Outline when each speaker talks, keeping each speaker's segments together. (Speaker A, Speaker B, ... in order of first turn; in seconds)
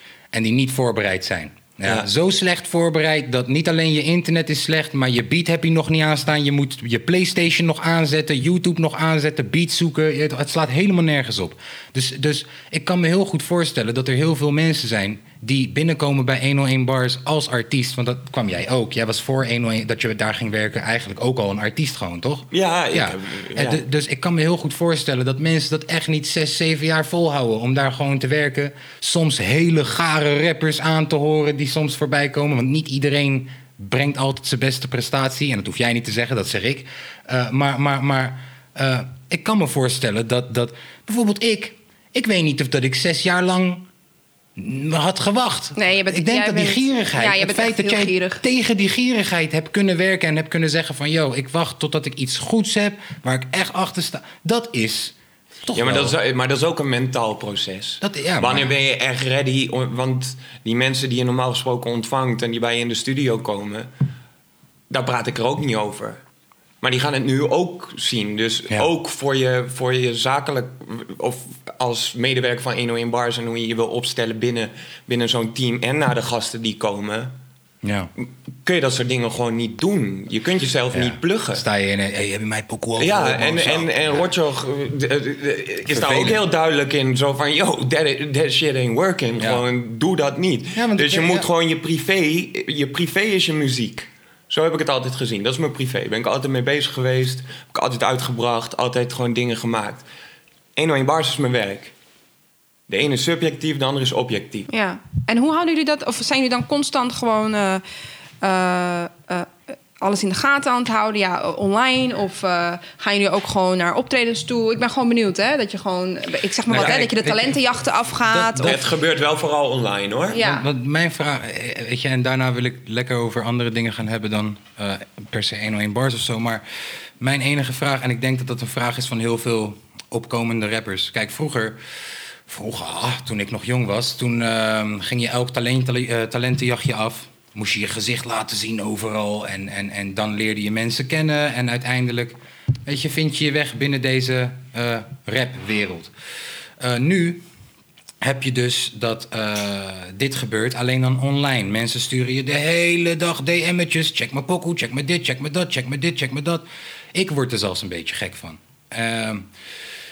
Speaker A: 0.3-43.9, 44.6-56.2, 58.0-58.7, 77.8-78.1, 80.9-84.3, 85.9-86.4, 90.8-91.5, 116.7-117.6, 118.2-118.9, 120.3-126.6, 127.2-131.8, 132.5-146.1, 146.8-147.4, 148.2-159.5
Speaker B: 22.5-23.8, 55.8-63.9, 64.9-66.2, 66.8-77.3, 78.7-81.6, 83.0-100.0, 100.8-101.9, 102.9-104.7, 116.7-117.0, 118.6-120.4
Speaker C: 45.8-48.4, 104.7-107.8, 108.4-118.7, 120.3-120.7